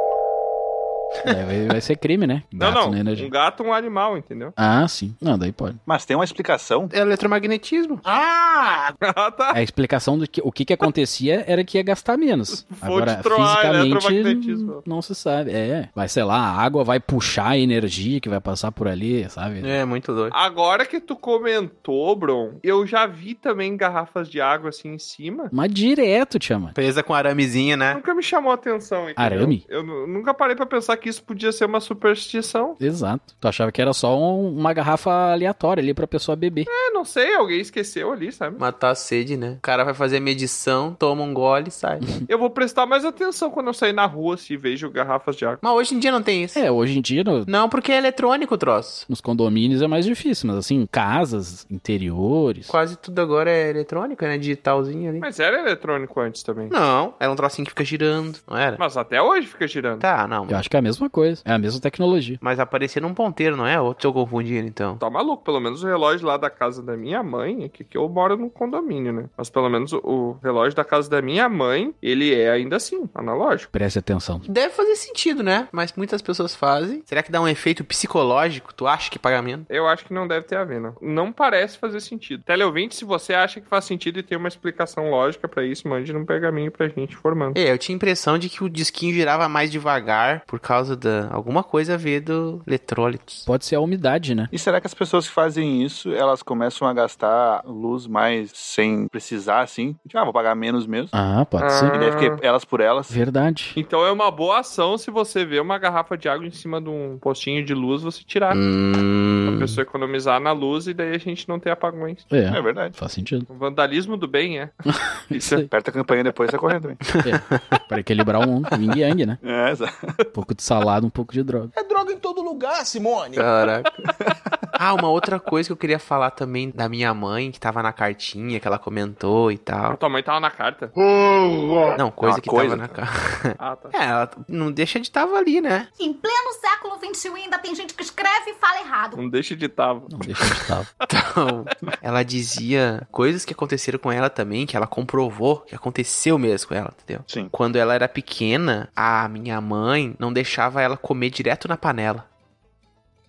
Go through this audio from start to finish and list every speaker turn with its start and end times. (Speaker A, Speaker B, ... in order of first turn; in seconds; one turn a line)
Speaker A: 1.2-3.3
Speaker B: 2.5-4.5
Speaker A: 4.6-5.8
Speaker C: 5.9-6.9
Speaker D: 6.9-8.0
Speaker E: 8.1-8.8
Speaker B: 9.0-9.6
Speaker A: 9.5-19.8
Speaker B: 12.6-14.8
Speaker D: 19.6-20.3
Speaker B: 20.3-25.5
Speaker A: 25.5-26.8
Speaker D: 26.7-28.0
Speaker B: 27.9-32.8
Speaker A: 29.2-29.6
Speaker A: 32.8-36.7
Speaker B: 36.7-38.6
Speaker D: 38.6-42.0
Speaker B: 42.3-45.6
Speaker D: 45.6-46.6
Speaker A: 46.5-47.5
Speaker D: 47.5-49.0
Speaker A: 49.1-52.7
Speaker D: 52.7-55.3
Speaker B: 55.2-56.7
Speaker D: 56.7-58.8
Speaker B: 58.8-60.0
Speaker D: 60.0-60.6
Speaker A: 60.5-62.4
Speaker D: 62.4-65.0
Speaker B: 65.0-73.7
Speaker A: 73.7-74.5
Speaker D: 74.5-79.7
Speaker B: 79.7-87.6
Speaker D: 87.5-93.5
Speaker A: 93.5-94.5
Speaker C: 94.5-101.1
Speaker A: 101.1-102.0
Speaker B: 101.6-102.4
Speaker C: 101.9-103.1
Speaker A: 103.1-103.8
Speaker B: 103.8-108.6
Speaker D: 108.5-109.8
Speaker B: 109.5-112.3
Speaker A: 112.3-113.5
Speaker C: 112.5-113.0
Speaker B: 113.5-114.8
Speaker A: 114.9-115.7
Speaker B: 115.3-115.6
Speaker C: 115.7-117.0
Speaker D: 117.1-117.8
Speaker A: 117.2-119.4
Speaker C: 119.4-120.1
Speaker A: 120.3-121.7
Speaker E: 121.7-123.5
Speaker D: 123.4-123.9
Speaker D: 124.8-130.0
Speaker B: 129.9-130.9
Speaker E: 131.1-131.9
Speaker D: 131.9-135.9
Speaker C: 132.2-132.9
Speaker B: 133.6-133.9
Speaker F: 136.0-139.2
Speaker B: 139.2-140.1
Speaker A: 140.1-140.9
Speaker D: 141.1-152.3
Speaker C: 147.3-147.5